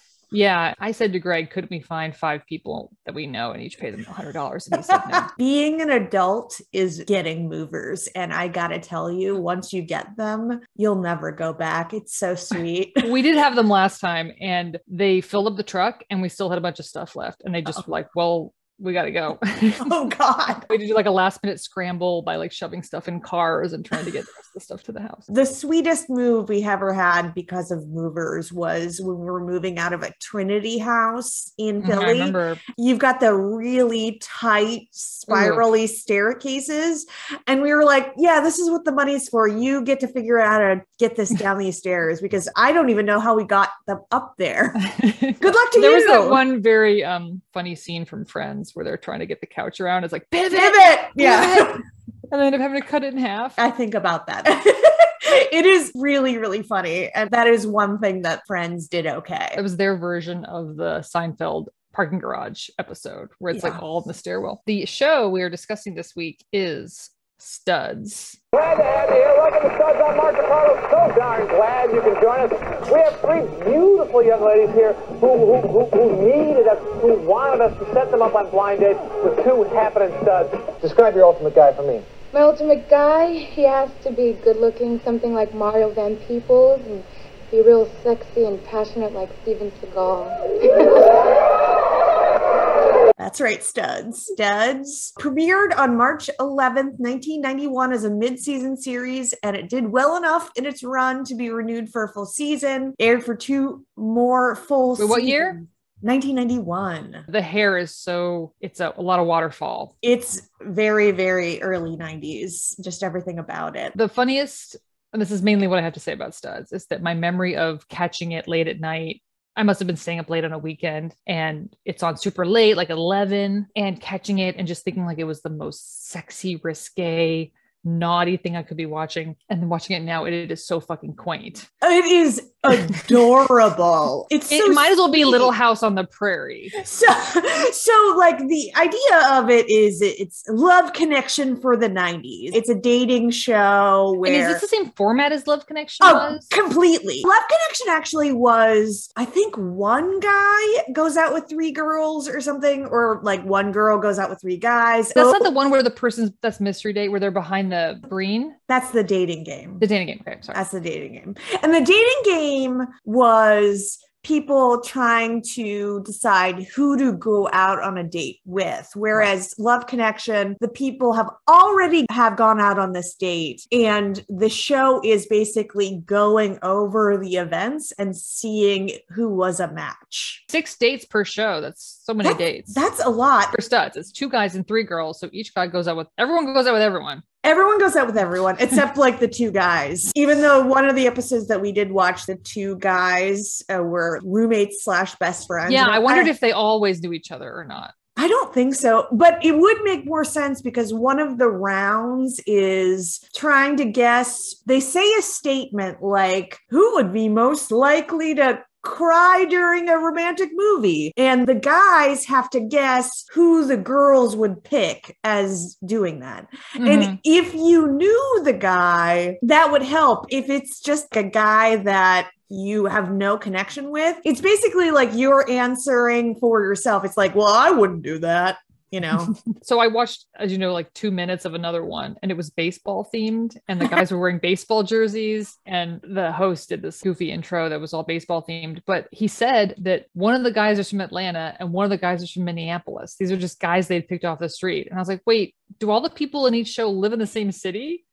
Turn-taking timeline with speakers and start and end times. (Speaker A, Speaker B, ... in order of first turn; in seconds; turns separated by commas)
Speaker A: 0.3-5.3, Speaker B: 4.9-13.1, Speaker A: 13.0-20.0, Speaker B: 19.8-20.7, Speaker A: 20.7-25.3, Speaker B: 25.3-44.8, Speaker A: 31.8-32.6, Speaker A: 35.3-35.6, Speaker A: 44.8-53.6, Speaker B: 45.4-46.4, Speaker B: 50.5-51.8, Speaker B: 53.6-59.6, Speaker A: 59.5-68.4, Speaker B: 63.5-63.8, Speaker C: 68.5-82.0, Speaker D: 82.3-91.2, Speaker B: 93.2-107.2, Speaker A: 105.0-105.6, Speaker A: 107.3-109.9, Speaker B: 110.0-114.0, Speaker A: 113.9-131.7, Speaker B: 131.8-135.5, Speaker A: 134.5-136.8, Speaker B: 136.8-144.7, Speaker A: 144.2-146.5, Speaker B: 146.0-155.5, Speaker A: 155.1-158.6, Speaker B: 158.7-159.8, Speaker A: 159.8-160.6, Speaker B: 160.5-180.4, Speaker A: 180.5-182.8, Speaker B: 182.2-183.6, Speaker A: 183.5-187.2, Speaker B: 187.4-196.3, Speaker A: 195.7-197.9, Speaker B: 198.2-229.3, Speaker A: 216.8-217.2, Speaker A: 229.6-248.0